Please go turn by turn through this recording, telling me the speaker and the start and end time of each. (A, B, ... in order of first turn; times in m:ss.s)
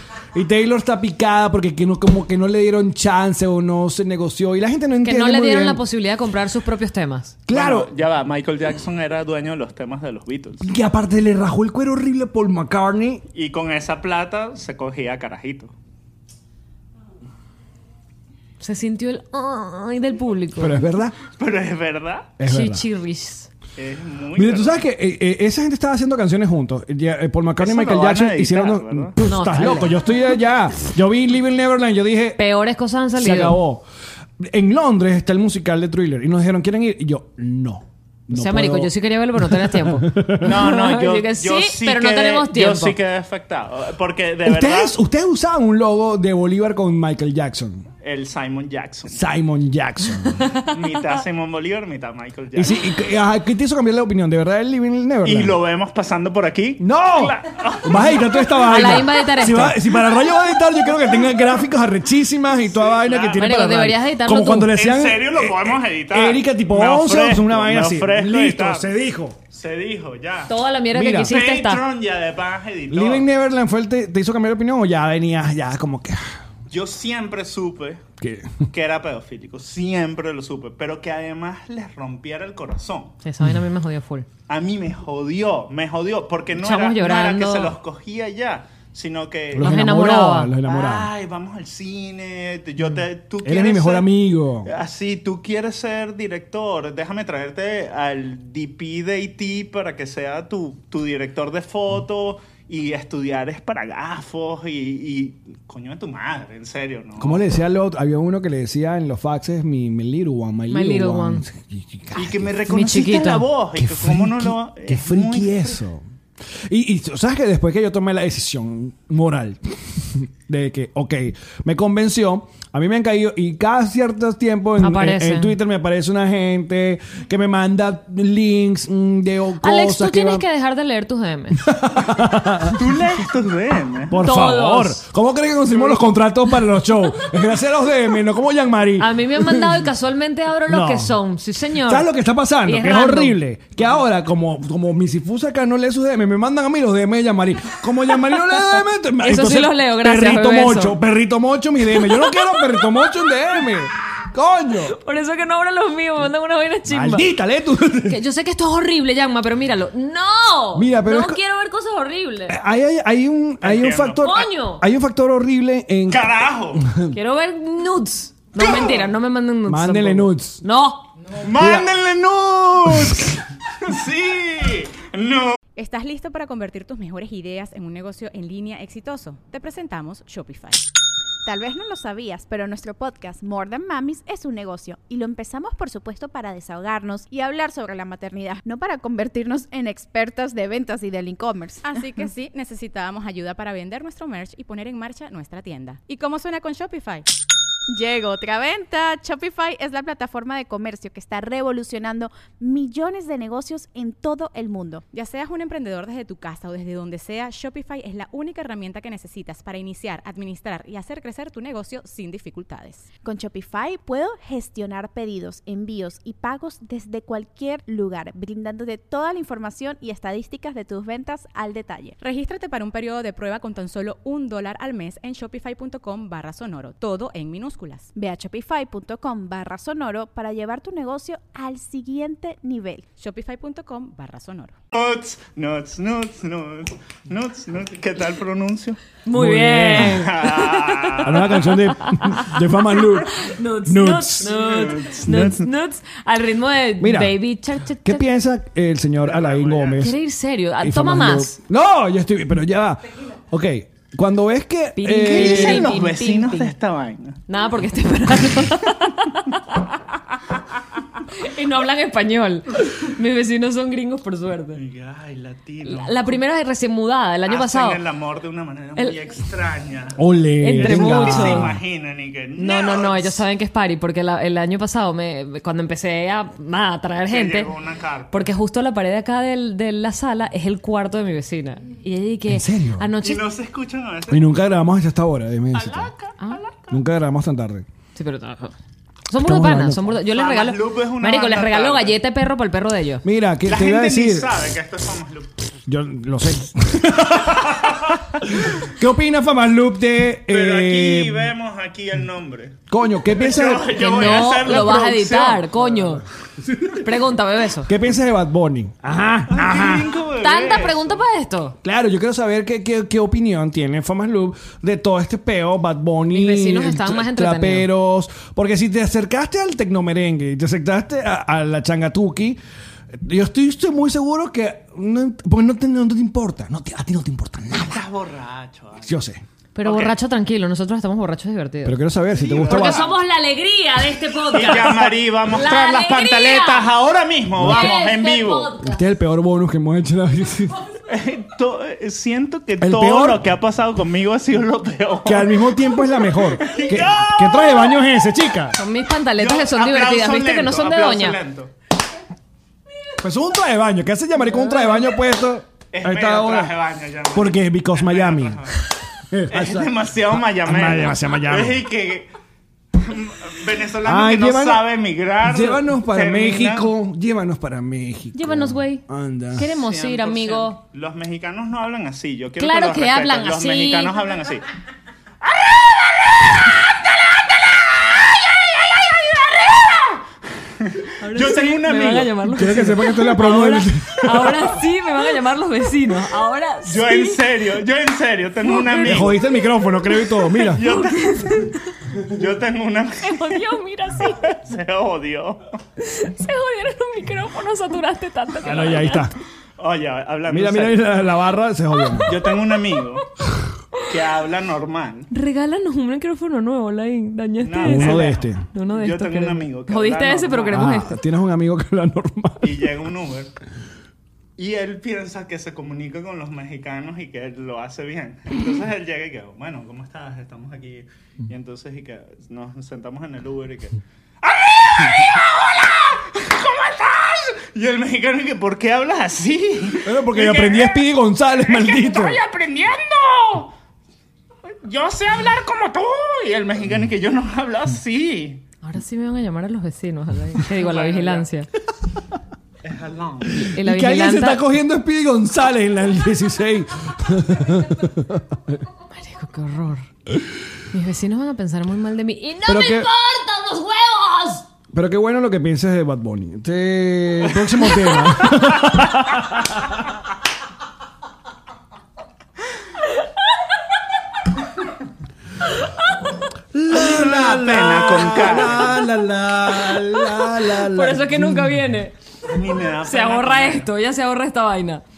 0:00.3-0:05.8 A
0:05.0-0:07.4 B
0:07.5-0:07.9 A
0:07.5-0:10.7 C
0:10.6-0:13.2 A
0:13.3-0:15.7 C
0:18.6-0:20.8 B
0:20.6-0:21.2 A
0:21.4-0:22.3 C
0:22.4-0:22.9 A
0:22.4-0:23.5 B
0:23.8-0:24.8 C
0:24.3-0:32.4 A
0:27.6-0:29.2 C
0:29.2-0:30.0 B
0:32.4-0:33.6 B
0:33.2-0:33.8 A
0:34.4-0:40.6 A
0:38.3-0:43.0 B
0:40.4-0:45.0 C
0:44.4-0:47.9 A
0:48.0-0:49.2 C
0:49.1-0:50.4 A
0:50.4-0:50.7 B
0:50.7-0:52.9 C
0:52.6-0:55.6 A
0:55.2-0:58.9 C
0:56.8-1:09.4 A
0:58.6-1:00.0 B
1:02.6-1:03.5 C
1:03.4-1:04.7 B
1:04.7-1:08.9 C
1:09.5-1:10.6 C
1:10.5-1:11.8 B
1:10.9-1:11.4 A
1:11.1-1:13.3 C
1:12.9-1:16.2 A
1:16.7-1:18.0 C
1:18.2-1:18.6 A
1:18.7-1:23.2 C
1:23.2-1:24.3 B
1:24.5-1:30.1 C
1:26.6-1:27.8 B
1:29.6-1:31.1 A
1:29.6-1:30.5 B
1:30.6-1:34.1 C
1:33.4-1:34.7 A
1:34.6-1:47.4 C
1:47.2-1:52.5 A
1:50.7-1:51.4 B
1:52.2-1:55.8 C
1:52.7-1:53.5 B
1:53.8-1:56.0 A
1:56.7-2:10.4 A
2:04.8-2:05.6 B
2:09.6-2:11.6 B
2:11.6-2:12.8 A
2:12.7-2:14.2 C
2:14.1-2:19.8 A
2:14.2-2:15.0 B
2:19.0-2:22.1 B
2:20.7-2:21.2 A
2:21.8-2:35.0 A
2:22.6-2:23.4 B
2:29.2-2:31.0 B
2:32.0-2:32.8 B
2:34.8-2:37.3 B
2:36.9-2:38.2 A
2:38.0-2:42.6 B
2:40.8-2:41.4 A
2:42.5-2:47.1 A
2:43.6-2:44.2 C
2:44.2-2:44.8 B
2:46.1-2:46.9 C
2:47.1-2:51.1 B
2:48.6-2:49.1 C
2:49.7-2:50.6 A
2:51.4-2:55.6 C
2:51.5-2:51.9 A
2:52.9-2:53.3 A
2:55.8-3:00.8 D
3:01.5-3:12.2 E
3:11.8-3:17.3 D
3:17.9-3:25.0 E
3:25.1-3:33.1 D
3:33.2-3:42.2 E
3:42.2-3:48.1 D
3:48.2-3:53.0 E
3:53.2-3:54.8 D
3:54.9-3:59.1 C
3:59.3-4:08.2 B
3:59.4-4:00.3 A
3:59.9-4:01.6 C
4:01.2-4:04.5 A
4:04.4-4:05.7 C
4:07.0-4:07.4 A
4:08.0-4:10.2 A
4:09.2-4:10.1 C
4:10.0-4:11.6 B
4:10.8-4:15.9 A
4:15.0-4:16.7 B
4:15.1-4:17.4 C
4:17.5-4:19.7 B
4:21.4-4:24.8 B
4:24.7-4:26.4 C
4:25.8-4:28.0 B
4:27.5-4:30.2 C
4:30.2-4:31.8 A
4:30.6-4:31.8 B
4:30.8-4:33.4 C
4:32.5-4:37.8 B
4:37.3-4:38.5 C
4:38.3-4:43.4 B
4:42.5-4:43.1 A
4:43.2-4:44.5 C
4:44.3-4:46.1 A
4:45.7-4:47.0 C
4:46.9-4:47.8 A
4:48.2-4:48.8 B
4:49.3-4:53.2 B
4:49.4-4:50.2 A
4:50.3-4:52.2 C
4:53.2-4:54.5 A
4:53.7-4:55.6 C
4:55.9-4:58.0 A
4:57.6-4:58.2 C
4:58.6-5:01.5 A
5:00.5-5:02.8 C
5:02.9-5:03.9 A
5:03.3-5:05.7 C
5:03.9-5:06.2 B
5:07.0-5:07.9 B
5:07.9-5:10.1 A
5:09.5-5:11.2 C
5:10.4-5:11.8 B
5:11.8-5:22.6 A
5:16.3-5:17.9 B
5:23.2-5:28.0 A
5:27.9-5:29.2 C
5:29.1-5:29.4 A
5:29.8-5:32.0 B
5:29.8-5:30.2 C
5:31.8-5:33.1 A
5:32.3-5:33.1 C
5:32.6-5:36.9 B
5:34.5-5:38.7 C
5:37.6-5:38.0 A
5:37.7-5:39.0 B
5:38.8-5:40.8 A
5:41.1-5:45.7 C
5:42.8-5:43.4 A
5:45.2-5:48.8 A
5:46.4-5:48.1 C
5:48.7-5:51.4 B
5:49.4-5:51.7 C
5:53.2-5:56.7 A
5:54.5-5:55.0 B
5:55.9-5:58.9 C
5:57.3-5:58.6 A
5:59.3-6:01.8 A
5:59.5-6:02.3 C
6:03.0-6:06.9 C
6:04.0-6:04.8 A
6:05.4-6:09.7 A
6:08.3-6:09.0 B
6:09.6-6:10.8 B
6:09.7-6:14.7 C
6:12.6-6:14.2 B
6:18.6-6:20.2 C
6:20.8-6:22.4 C
6:21.2-6:27.4 B
6:22.5-6:24.5 A
6:26.8-6:29.4 C
6:28.6-6:29.2 B
6:29.0-6:30.8 A
6:30.1-6:32.2 B
6:30.6-6:31.6 C
6:32.3-6:33.7 C
6:33.2-6:34.4 B
6:34.2-6:35.7 C
6:36.0-6:39.3 B
6:38.6-6:39.3 C
6:38.6-6:39.3 A
6:39.8-6:41.2 C
6:40.5-6:42.4 A
6:42.3-6:43.3 C
6:44.1-6:45.3 C
6:45.3-6:51.2 B
6:47.6-6:50.9 C
6:47.8-6:48.6 A
6:50.7-6:52.8 A
6:52.6-6:53.5 C
6:54.6-7:13.7 C
7:10.0-7:12.4 A
7:14.6-7:18.6 C
7:18.8-7:21.7 B
7:20.8-7:21.5 C
7:22.8-7:23.7 C
7:23.6-7:28.4 A
7:23.7-7:24.6 B
7:29.1-7:30.1 B
7:30.9-7:34.6 B
7:32.7-7:33.1 A
7:34.9-7:39.8 A
7:46.7-7:51.8 A
7:46.9-7:49.0 C
7:49.8-7:52.1 B
7:52.4-7:53.9 C
7:52.9-7:55.0 B